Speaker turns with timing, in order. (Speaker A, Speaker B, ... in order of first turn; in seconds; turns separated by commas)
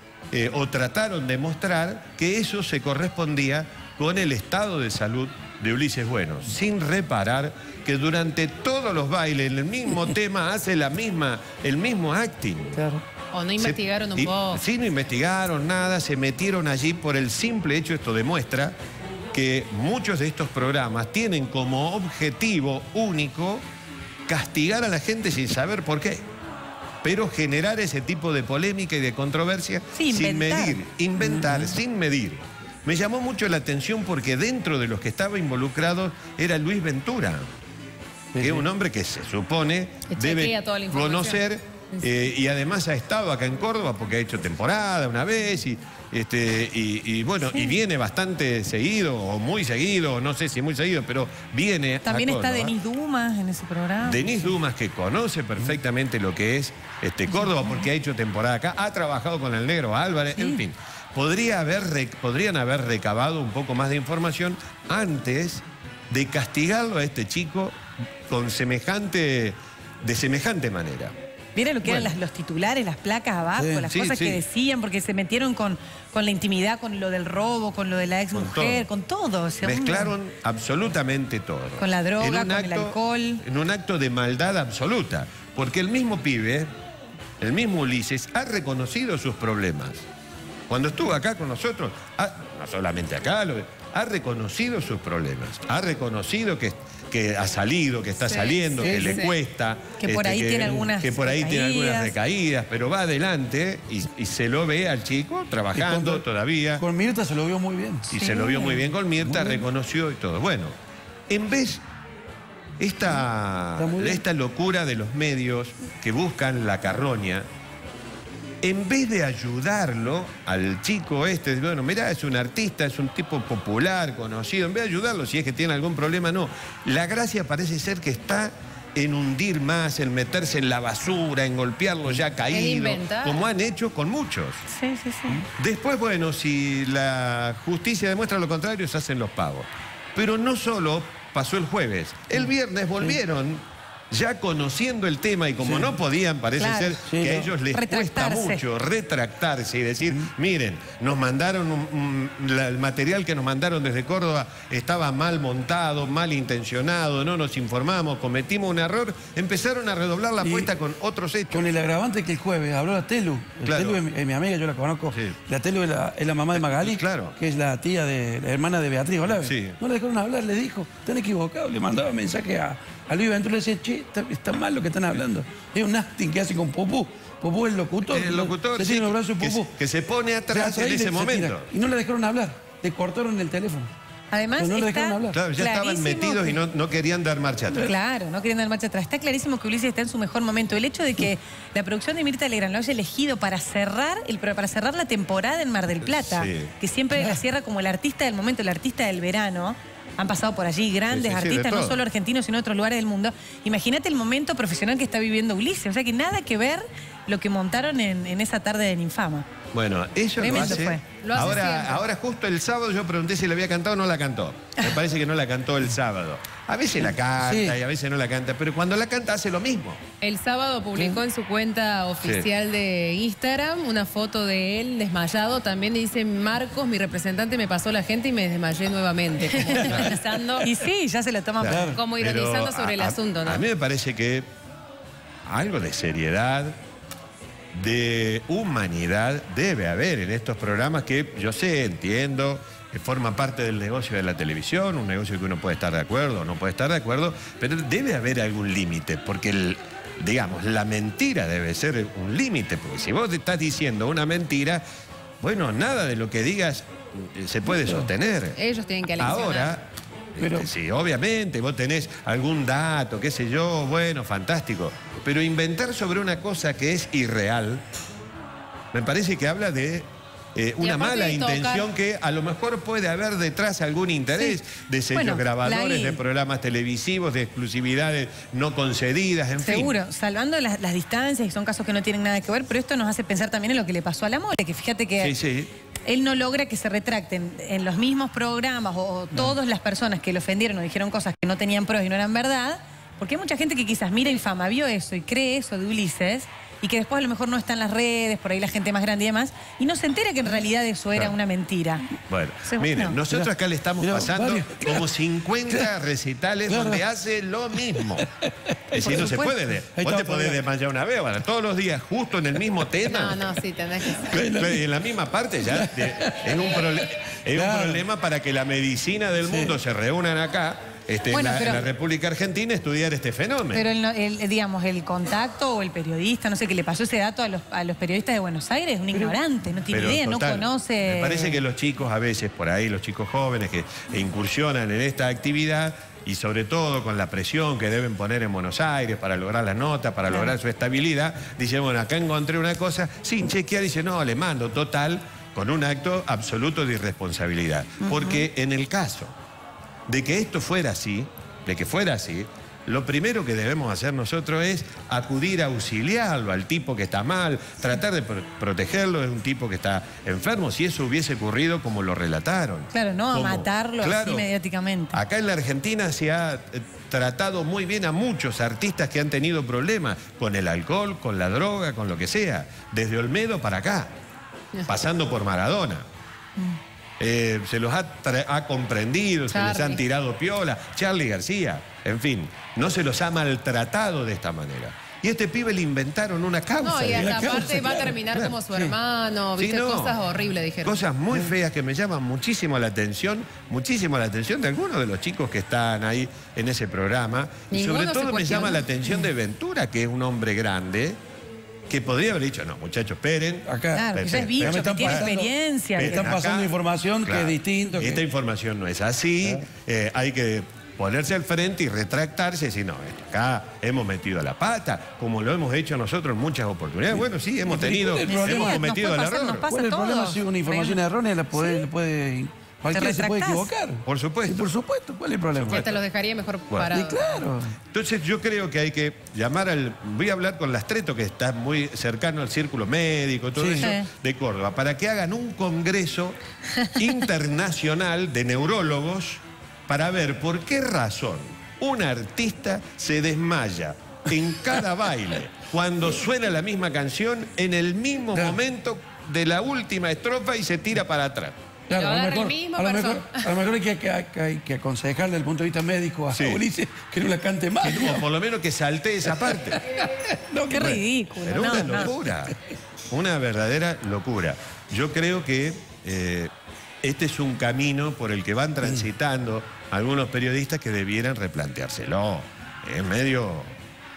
Speaker A: 0.3-12.9, Speaker B: 12.8-13.0, Speaker C: 13.3-14.6, Speaker A: 13.6-18.8, Speaker A: 19.3-23.6, Speaker A: 24.3-26.2, Speaker A: 27.0-37.5, Speaker D: 29.9-30.8, Speaker B: 31.2-31.8, Speaker B: 38.3-38.6, Speaker A: 38.4-52.8, Speaker C: 40.1-42.0, Speaker D: 52.0-54.5, Speaker A: 54.0-71.1, Speaker D: 57.3-57.7, Speaker D: 71.5-80.1, Speaker A: 71.8-72.1, Speaker B: 73.6-73.9, Speaker A: 73.9-74.4, Speaker A: 78.3-78.9, Speaker A: 79.6-86.7, Speaker D: 81.8-83.4, Speaker A: 87.4-90.0, Speaker A: 90.7-106.8, Speaker C: 98.3-99.3, Speaker B: 98.8-99.2, Speaker D: 100.0-102.1, Speaker B: 105.7-108.2, Speaker A: 108.1-110.7, Speaker D: 108.1-108.9, Speaker B: 109.2-109.6, Speaker A: 111.3-111.8, Speaker A: 112.8-117.5, Speaker B: 113.8-114.2, Speaker A: 118.6-134.7, Speaker C: 132.5-133.4, Speaker D: 134.7-135.4, Speaker A: 135.4-161.7, Speaker B: 145.6-145.9, Speaker D: 146.6-147.0, Speaker B: 147.0-147.5, Speaker D: 147.7-148.6, Speaker B: 160.4-160.7, Speaker B: 161.5-179.8, Speaker A: 163.6-164.0, Speaker A: 165.1-165.4, Speaker A: 166.5-167.4, Speaker A: 169.3-169.8, Speaker A: 178.0-181.7, Speaker B: 180.5-183.9, Speaker D: 184.3-186.6, Speaker B: 184.6-185.4, Speaker A: 185.3-187.9, Speaker D: 187.8-209.5, Speaker A: 196.0-196.7, Speaker A: 201.1-202.0, Speaker A: 209.7-220.0, Speaker D: 210.4-211.1, Speaker C: 210.5-212.0, Speaker B: 217.4-217.8, Speaker C: 220.2-230.7, Speaker A: 222.2-222.5, Speaker D: 229.4-229.8, Speaker B: 229.6-230.2, Speaker A: 229.8-230.2, Speaker D: 230.6-231.8, Speaker A: 231.6-234.5, Speaker B: 231.6-232.0, Speaker C: 231.8-233.6, Speaker A: 235.4-236.8, Speaker A: 237.7-254.8, Speaker A: 255.4-258.6, Speaker C: 258.5-259.7, Speaker A: 259.2-267.8, Speaker B: 260.4-260.7, Speaker A: 268.9-280.0, Speaker C: 270.8-271.9, Speaker D: 275.1-276.2, Speaker D: 279.6-285.4, Speaker A: 285.2-285.7, Speaker D: 286.0-302.1, Speaker A: 302.3-308.3, Speaker D: 302.6-303.1, Speaker B: 304.0-305.1, Speaker B: 306.7-307.0, Speaker B: 307.8-310.6, Speaker A: 308.9-313.4, Speaker D: 309.0-309.5, Speaker C: 313.0-314.3, Speaker B: 314.2-314.9, Speaker A: 314.3-323.8, Speaker B: 315.6-316.8, Speaker B: 317.5-318.0, Speaker B: 319.4-319.8, Speaker D: 321.3-321.8, Speaker D: 323.7-331.6, Speaker A: 329.9-349.3, Speaker D: 348.0-348.4, Speaker A: 350.1-364.5, Speaker D: 362.9-365.2, Speaker A: 365.1-374.1, Speaker A: 374.9-376.0, Speaker A: 377.2-388.6, Speaker C: 379.5-380.0, Speaker C: 386.8-391.0, Speaker B: 387.1-388.9, Speaker A: 389.6-390.1, Speaker A: 390.8-401.2, Speaker C: 397.7-398.8, Speaker A: 401.9-405.3, Speaker B: 403.6-408.2, Speaker D: 403.9-406.3, Speaker A: 406.0-406.7, Speaker A: 407.2-419.7, Speaker B: 417.1-418.9, Speaker D: 418.3-421.0, Speaker B: 419.7-425.8, Speaker D: 421.5-421.9, Speaker D: 422.9-423.7, Speaker A: 424.0-424.7, Speaker A: 425.6-426.0, Speaker C: 425.6-427.4, Speaker B: 426.9-427.8, Speaker A: 427.9-436.4, Speaker B: 433.6-433.9, Speaker D: 433.8-434.1, Speaker A: 436.9-451.5, Speaker B: 451.9-458.2, Speaker C: 451.9-453.5, Speaker A: 456.3-456.6, Speaker A: 457.8-459.8, Speaker B: 459.2-461.0, Speaker D: 460.7-462.1, Speaker A: 460.7-462.6, Speaker A: 463.1-466.5, Speaker A: 467.0-473.7